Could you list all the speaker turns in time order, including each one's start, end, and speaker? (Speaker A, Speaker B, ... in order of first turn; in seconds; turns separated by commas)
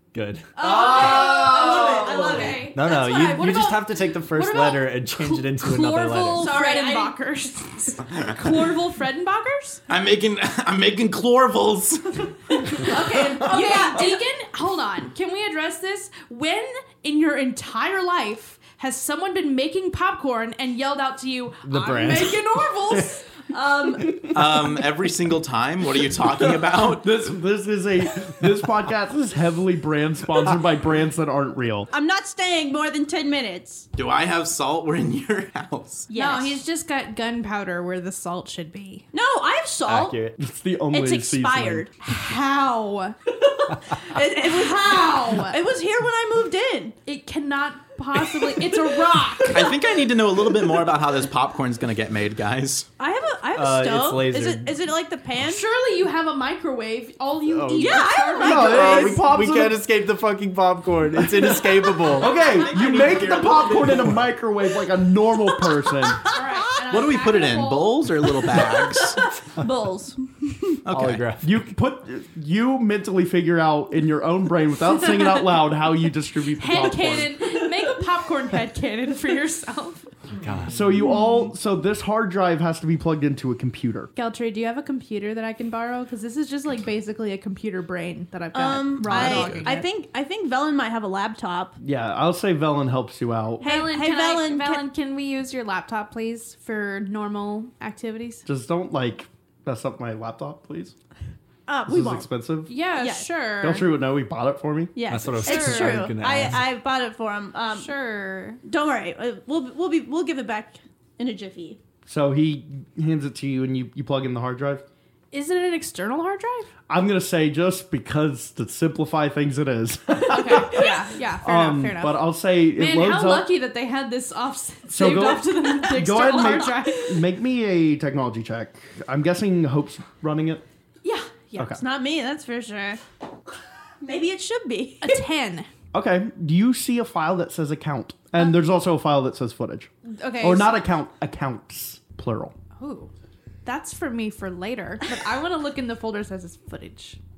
Speaker A: 0.1-0.5, Speaker B: 0.6-3.7, Speaker C: 0.6-9.8, Speaker A: 2.7-6.6, Speaker B: 6.4-7.2, Speaker D: 9.9-12.9, Speaker C: 12.6-24.2, Speaker B: 12.8-14.2, Speaker A: 21.6-23.0, Speaker B: 23.6-24.0, Speaker E: 24.0-24.6, Speaker D: 24.3-27.2, Speaker E: 26.5-31.9, Speaker B: 31.9-33.9, Speaker D: 34.0-36.1, Speaker B: 36.1-36.6, Speaker C: 36.1-39.1, Speaker B: 39.1-40.2, Speaker A: 39.9-40.3, Speaker E: 40.2-41.9, Speaker B: 40.9-42.0, Speaker C: 42.0-43.2, Speaker B: 43.5-47.0, Speaker C: 44.0-45.6, Speaker C: 47.0-49.8, Speaker D: 49.5-52.9, Speaker B: 53.0-55.6, Speaker A: 53.5-54.8, Speaker C: 55.4-59.2, Speaker A: 57.5-58.0, Speaker B: 57.7-59.2, Speaker E: 58.4-59.8, Speaker A: 58.6-64.3, Speaker E: 61.2-66.3, Speaker B: 62.3-63.3, Speaker D: 63.0-63.9, Speaker B: 66.2-66.8, Speaker C: 66.3-69.0, Speaker D: 66.9-69.3, Speaker B: 69.2-70.8, Speaker D: 70.8-71.3, Speaker A: 70.9-71.6, Speaker E: 71.4-77.4, Speaker C: 76.6-80.2, Speaker A: 80.4-81.0, Speaker E: 80.7-84.1, Speaker C: 84.2-89.9, Speaker B: 88.5-91.8, Speaker E: 91.8-93.7, Speaker B: 93.6-94.8, Speaker C: 93.6-98.5, Speaker E: 98.5-101.0, Speaker B: 101.7-102.3, Speaker E: 101.9-102.7, Speaker C: 102.7-103.9, Speaker B: 102.9-103.3, Speaker E: 103.6-104.9, Speaker B: 105.0-107.9, Speaker A: 105.1-106.7, Speaker C: 105.4-106.1, Speaker C: 107.8-108.6, Speaker B: 108.6-111.8, Speaker E: 112.1-114.8, Speaker C: 115.3-116.7, Speaker E: 116.9-123.5, Speaker C: 120.3-127.2, Speaker E: 124.9-130.6, Speaker B: 126.3-126.9, Speaker C: 131.0-131.6, Speaker B: 131.5-133.0, Speaker E: 131.6-131.8, Speaker B: 134.0-135.2, Speaker C: 135.0-135.7, Speaker E: 135.9-142.6, Speaker C: 140.1-140.7, Speaker C: 142.8-143.1, Speaker C: 143.6-147.2